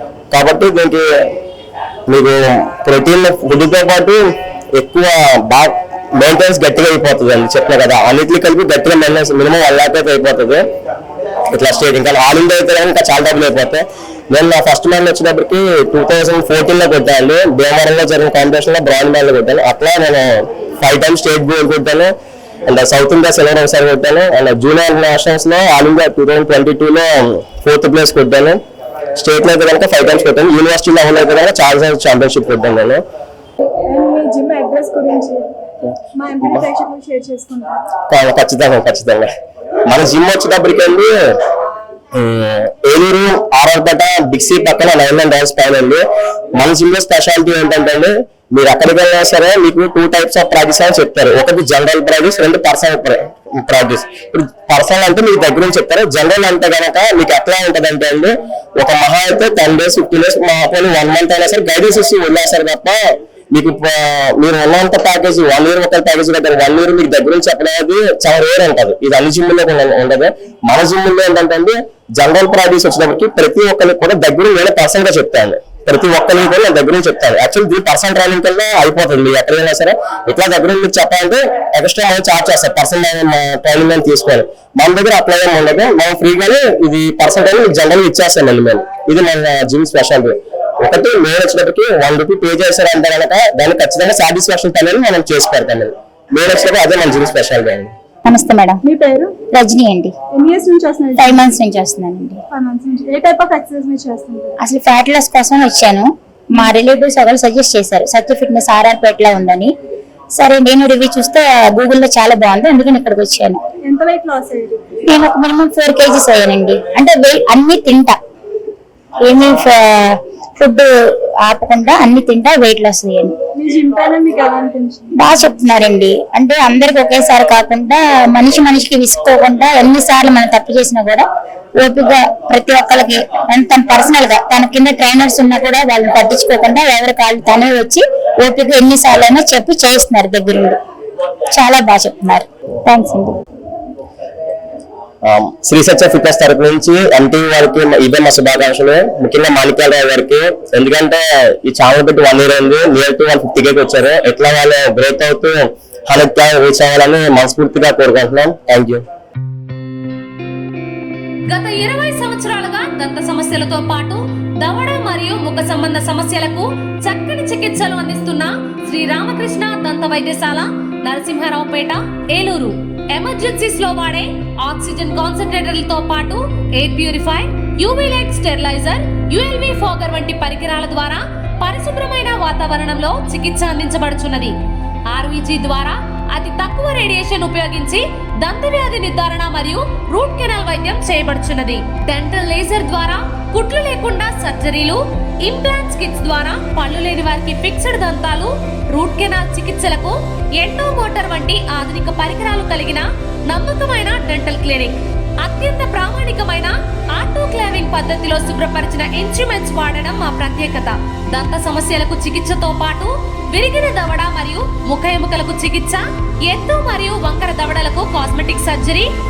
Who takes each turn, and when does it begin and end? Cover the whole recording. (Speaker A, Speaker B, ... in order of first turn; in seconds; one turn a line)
Speaker A: 0.3-1.4
Speaker A: 2.1-10.7
Speaker A: 11.5-22.1
Speaker A: 22.6-28.6
Speaker A: 29.1-33.0
Speaker B: 33.9-35.5
Speaker B: 36.1-37.7
Speaker A: 38.1-39.3
Speaker A: 39.9-41.4
Speaker A: 42.1-97.9
Speaker C: 98.2-98.8
Speaker B: 98.8-99.3
Speaker C: 99.5-100.1
Speaker B: 100.3-101.5
Speaker C: 101.2-102.4
Speaker B: 102.5-104.6
Speaker C: 104.6-109.7
Speaker C: 110.4-113.6
Speaker B: 113.8-115.0
Speaker C: 115.1-118.2
Speaker C: 119.2-123.3
Speaker B: 123.5-125.1
Speaker C: 125.2-131.2
Speaker C: 131.8-140.8
Speaker C: 141.5-143.4
Speaker A: 145.2-159.0
Speaker D: 161.5-184.5
Speaker D: 185.1-219.1